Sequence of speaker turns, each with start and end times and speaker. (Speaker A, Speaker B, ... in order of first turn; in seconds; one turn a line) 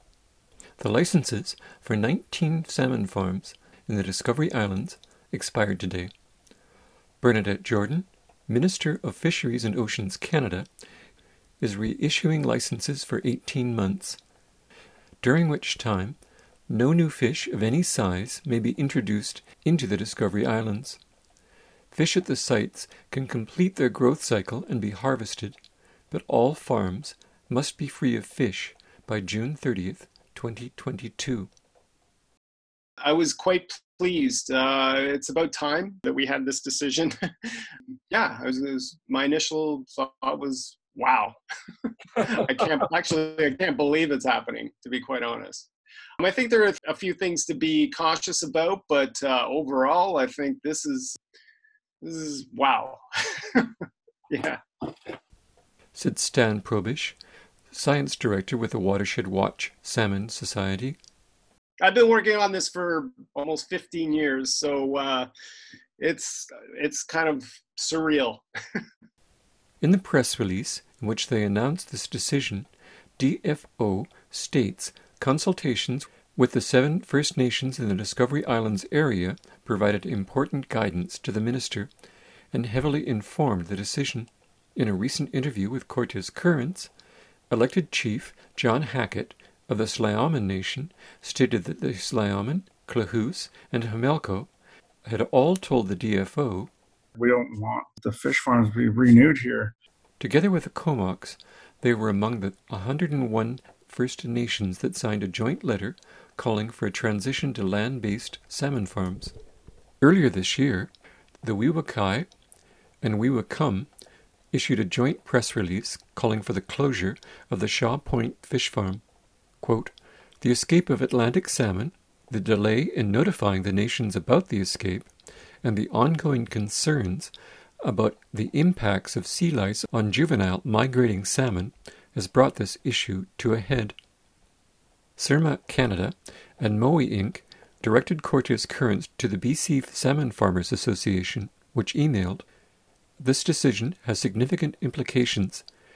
Speaker A: 0.8-6.1
Speaker A: 7.2-10.7
Speaker A: 11.6-14.2
Speaker A: 15.2-16.2
Speaker A: 16.7-21.0
Speaker A: 21.9-25.6
Speaker A: 26.1-31.5
Speaker B: 33.0-37.5
Speaker B: 38.1-41.4
Speaker B: 42.2-51.2
Speaker B: 52.0-53.7
Speaker B: 54.3-55.1
Speaker A: 55.9-57.2
Speaker A: 57.7-61.0
Speaker B: 61.8-65.3
Speaker B: 66.0-68.8
Speaker A: 69.8-81.9
Speaker A: 82.5-86.9
Speaker A: 87.5-94.5
Speaker A: 95.0-96.7
Speaker C: 97.1-99.7
Speaker A: 100.2-109.3
Speaker A: 110.0-110.9
Speaker A: 111.4-112.3
Speaker A: 113.0-113.9
Speaker A: 114.5-119.0
Speaker A: 119.6-125.1
Speaker A: 125.6-133.9
Speaker A: 135.2-142.4
Speaker A: 143.2-145.6